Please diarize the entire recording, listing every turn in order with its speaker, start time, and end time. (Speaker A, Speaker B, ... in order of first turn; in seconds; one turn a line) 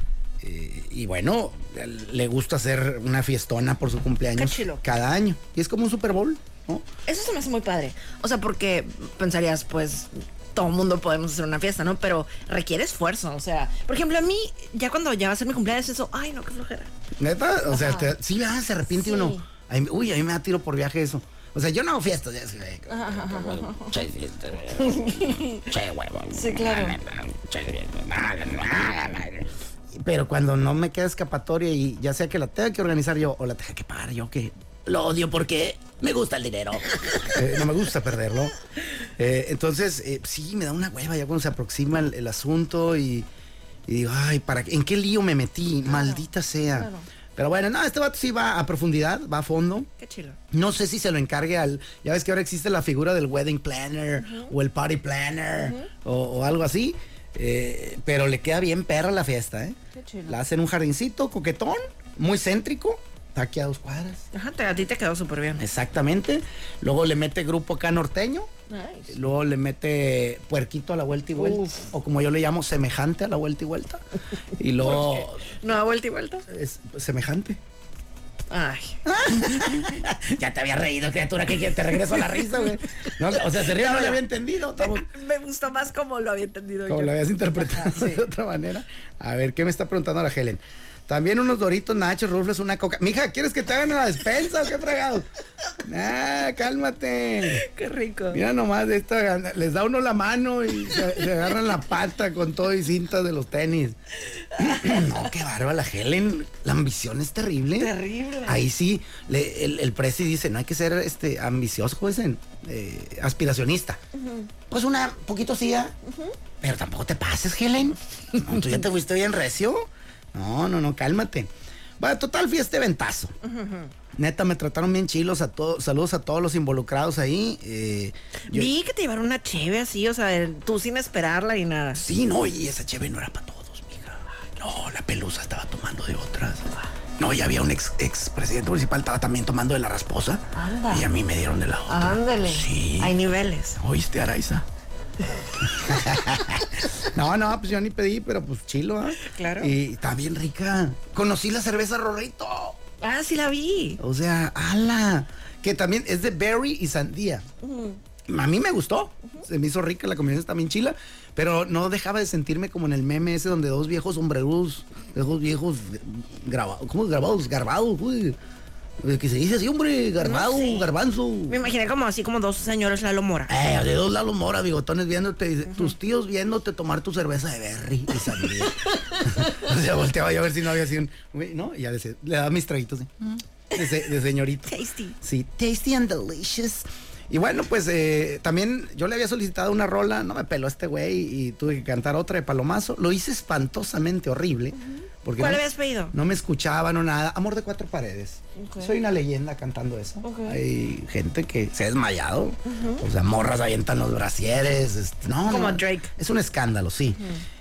Speaker A: 0.4-6.9
Speaker B: 4.4-4.8
Speaker B: 7.1-16.9
Speaker A: 17.2-38.5
Speaker B: 17.7-18.1
Speaker B: 18.9-19.4
Speaker B: 22.9-24.0
Speaker B: 24.8-25.7
Speaker B: 26.3-27.0
Speaker A: 39.2-43.3
Speaker A: 43.9-49.9
Speaker B: 45.9-47.1
Speaker B: 50.0-50.4
Speaker A: 50.5-64.2
Speaker B: 54.2-54.5
Speaker B: 55.6-55.9
Speaker B: 59.9-60.4
Speaker B: 64.3-65.6
Speaker A: 65.6-68.5
Speaker B: 68.7-69.2
Speaker A: 69.1-74.0
Speaker B: 71.4-71.9
Speaker A: 74.6-75.5
Speaker B: 74.8-76.5
Speaker A: 76.5-77.6
Speaker B: 78.5-79.0
Speaker A: 79.0-85.1
Speaker B: 82.6-84.2
Speaker B: 84.7-88.2
Speaker A: 86.9-95.3
Speaker A: 95.8-97.6
Speaker B: 97.4-98.4
Speaker A: 98.3-104.0
Speaker B: 104.3-105.3
Speaker A: 104.6-107.9
Speaker B: 107.8-108.6
Speaker A: 108.5-114.0
Speaker B: 114.2-114.5
Speaker A: 114.7-116.0
Speaker B: 116.1-116.3
Speaker A: 116.6-123.3
Speaker B: 123.4-123.9
Speaker A: 124.2-128.7
Speaker B: 128.5-132.0
Speaker A: 131.9-143.2
Speaker B: 140.6-141.1
Speaker B: 141.9-143.8
Speaker A: 143.8-144.7
Speaker A: 145.6-152.8
Speaker B: 149.2-149.7
Speaker B: 153.0-154.0
Speaker A: 154.0-157.5
Speaker B: 157.6-158.0
Speaker A: 158.3-168.4
Speaker A: 169.0-171.6
Speaker B: 170.2-170.9
Speaker B: 171.5-173.5
Speaker A: 173.5-207.2
Speaker B: 178.7-179.6
Speaker B: 184.7-185.2
Speaker B: 194.8-196.2
Speaker B: 198.6-198.9
Speaker B: 200.2-200.6
Speaker B: 202.7-203.0
Speaker B: 205.5-206.1